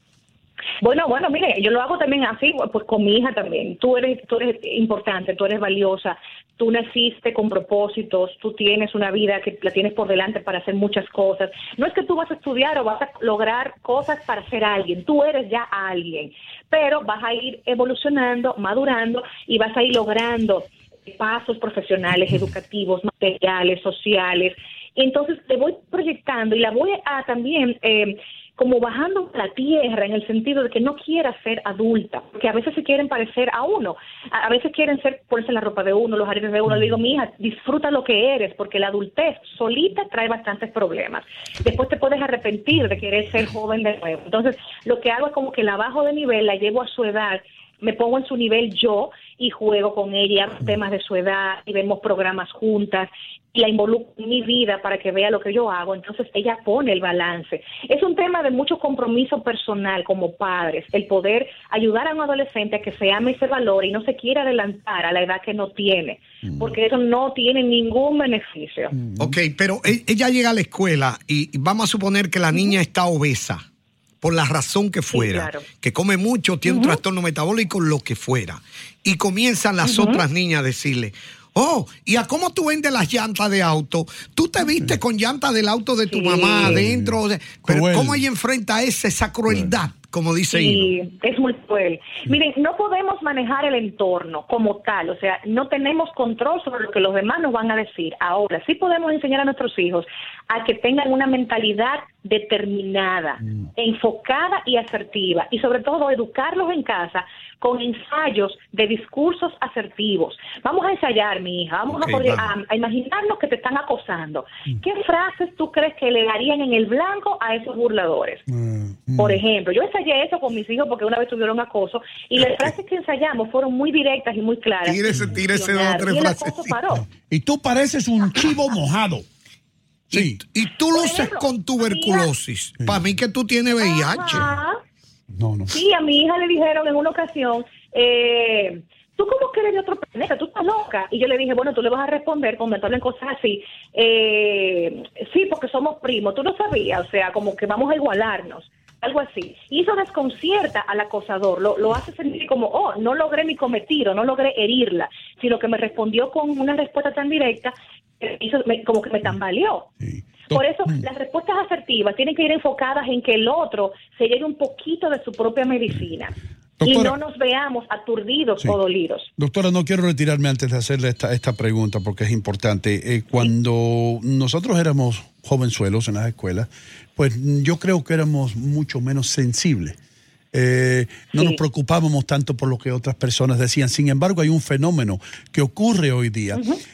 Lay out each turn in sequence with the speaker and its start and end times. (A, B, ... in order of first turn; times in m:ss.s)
0:00.8-1:09.0 A
1:09.2-1:13.6 B
1:14.2-1:30.9 B
1:15.1-1:15.7 A
1:16.7-1:17.0 A
1:19.8-1:20.2 A
1:26.1-1:26.8 A
1:26.6-1:27.1 C
1:27.6-1:28.2 C
1:30.5-1:58.5 A
1:58.5-1:59.4 C
1:59.2-2:07.1 A
2:04.8-2:06.7 B
2:05.2-2:05.4 C
2:07.0-2:09.2 C
2:10.1-2:10.4 C
2:10.1-2:14.5 B
2:10.9-2:12.3 A
2:13.8-2:14.8 A
2:15.3-2:15.7 C
2:15.7-2:39.9 A
2:40.0-2:41.0 C
2:40.5-2:49.3 A
2:46.8-2:47.2 C
2:49.4-3:00.0 C
3:00.5-3:06.6 C
3:01.3-3:01.6 A
3:06.5-3:06.8 A